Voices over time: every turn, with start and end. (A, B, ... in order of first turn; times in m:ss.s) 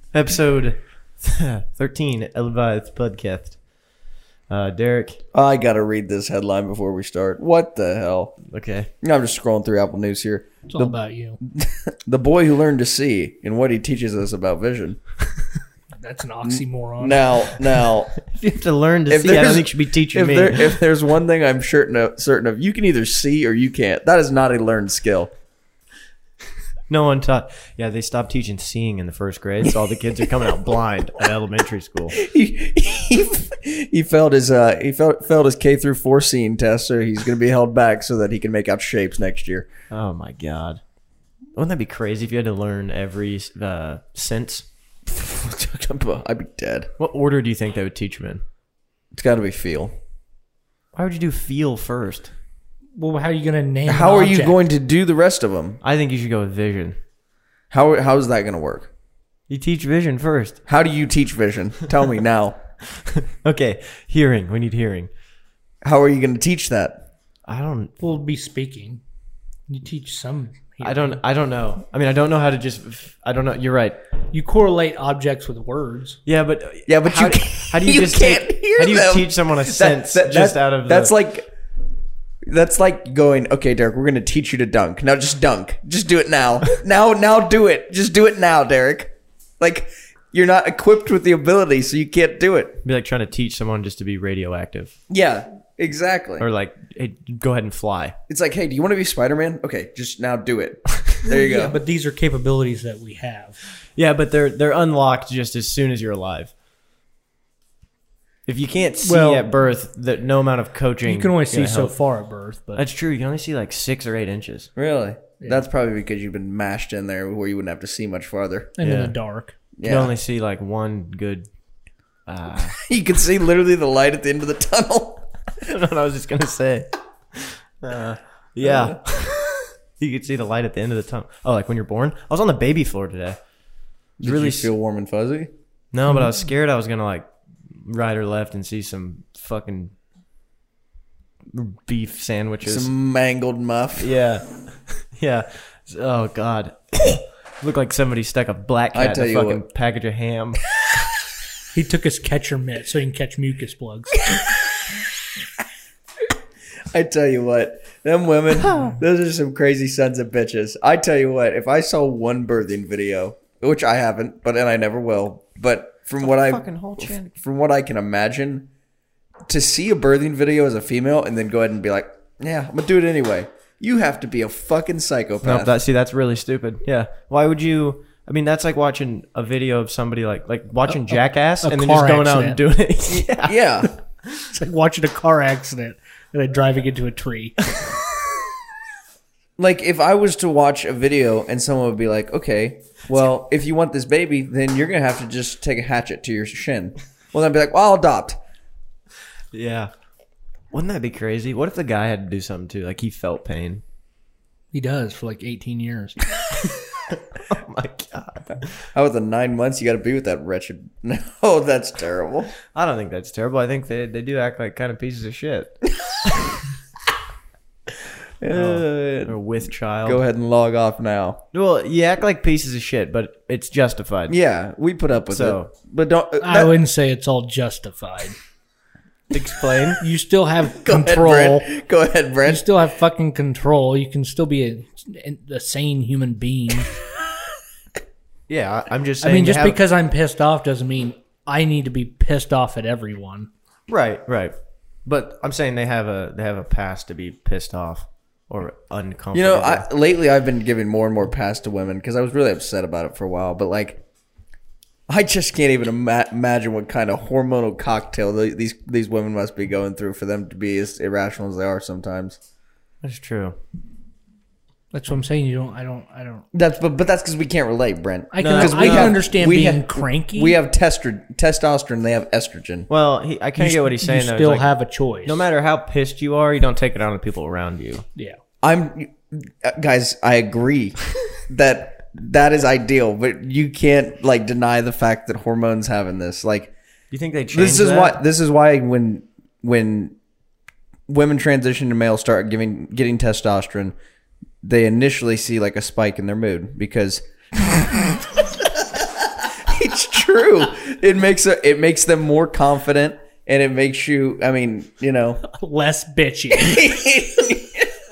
0:00.1-0:03.6 A
0:04.5-0:05.2 A
0:05.3-0:08.4 B
0:08.5-0:08.9 A
0:09.0-0:15.0 B
0:10.7-0:11.4 C
0:16.0-0:17.5 C
0:16.4-0:18.1 B
0:18.3-0:20.8 A
0:19.1-0:25.3 B
0:26.9-0:32.2 A
0:32.1-0:39.7 B
0:39.9-0:40.8 A
0:41.5-0:44.7 A
0:45.1-0:46.9 B
0:47.0-0:48.4 A
0:49.1-0:49.9 B
0:50.9-0:52.3 A
0:53.0-0:54.6 C
0:53.9-0:55.8 B
0:55.8-0:57.0 A
0:57.7-0:58.9 B
0:59.5-1:00.6 A
1:00.7-1:02.6 B
1:02.9-1:05.1 A
1:05.8-1:07.1 B
1:07.5-1:07.9 A
1:08.0-1:09.0 C
1:09.7-1:11.2 C
1:10.8-1:14.0 A
1:14.3-1:16.2 C
1:16.3-1:21.1 A
1:16.9-1:21.5 B
1:22.5-1:32.8 B
1:32.8-1:34.9 A
1:35.1-1:36.5 B
1:36.4-1:38.2 A
1:38.3-1:41.8 B
1:41.2-1:43.6 C
1:44.0-1:46.5 A
1:48.5-1:51.9 A
1:49.0-1:49.5 C
1:51.1-1:52.8 C
1:52.8-1:54.7 A
1:54.8-1:58.8 B
1:58.8-1:59.6 C
1:58.8-1:59.2 A
1:59.8-2:00.1 B
1:59.8-2:01.5 A
2:02.3-2:02.8 A
2:02.8-2:05.3 B
2:05.6-2:13.4 A
2:08.6-2:09.0 B
2:14.2-2:15.5 B
2:14.2-2:14.7 A
2:15.9-2:19.9 A
2:21.5-2:22.9 A
2:22.6-2:24.1 B
2:24.0-2:24.4 A
2:25.1-2:30.6 A
2:28.9-2:29.6 B
2:31.7-2:34.2 C
2:34.3-2:34.6 B
2:36.9-2:48.7 B
2:46.2-2:47.3 A
2:49.5-2:55.7 B
2:55.4-3:03.9 A
3:01.6-3:02.6 C
3:03.1-3:03.9 B
3:04.5-3:07.6 C
3:09.6-3:18.4 B
3:19.5-3:19.9 A
3:20.7-3:23.8 A
3:24.7-3:26.2 C
3:27.1-3:28.7 A
3:28.9-3:32.6 B
3:32.7-3:35.8 A
3:38.4-3:39.4 B
3:38.5-3:40.2 A
3:40.0-3:41.4 B
3:41.5-3:44.4 A
3:44.3-3:46.8 B
3:45.3-3:45.7 A
3:46.4-3:48.4 C
3:49.3-3:50.0 A
3:50.0-3:51.7 C
3:50.8-3:52.7 B
3:52.4-3:56.9 C
3:58.5-3:59.8 A
3:59.2-4:03.5 C
4:03.9-4:04.5 A
4:05.1-4:09.9 A
4:09.3-4:14.0 B
4:15.1-4:22.4 B
4:23.0-4:23.6 A
4:24.9-4:26.4 C
4:26.5-4:32.9 B
4:28.3-4:30.6 C
4:28.4-4:29.2 A
4:32.9-4:34.7 A
4:33.6-4:35.4 C
4:35.2-4:38.0 A
4:38.6-4:46.7 B
4:47.1-4:48.2 A
4:47.5-4:50.2 B
4:51.1-4:54.0 B
4:54.6-5:05.4 B
5:05.5-5:06.9 C
5:06.5-5:08.0 B